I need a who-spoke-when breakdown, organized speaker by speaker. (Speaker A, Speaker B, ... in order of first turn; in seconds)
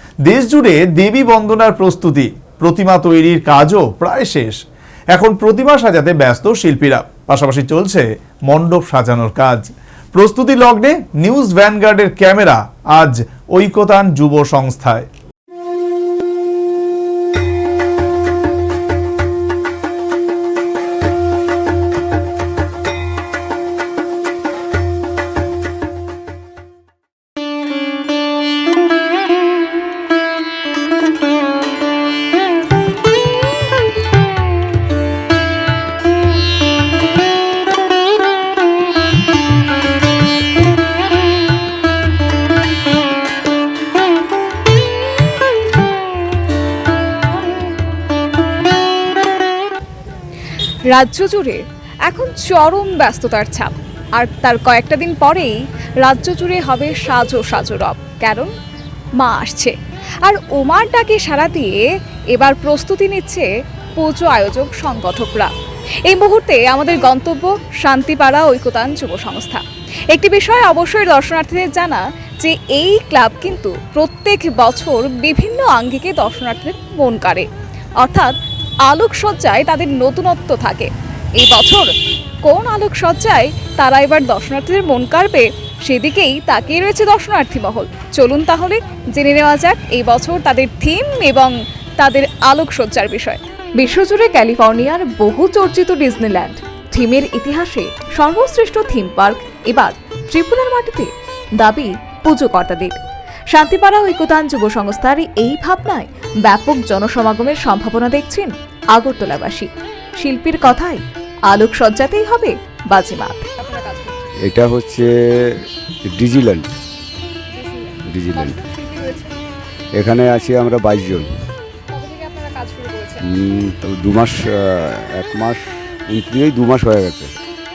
Speaker A: 0.2-4.6, 5.1-15.1
Speaker B: 50.9-58.5, 59.2-65.5, 66.1-77.5, 78.0-78.3, 78.9-81.9, 82.4-103.0, 103.5-114.3, 117.5-119.3, 121.9-123.3
Speaker C: 114.4-116.7, 118.1-118.6, 120.0-121.4, 123.2-127.3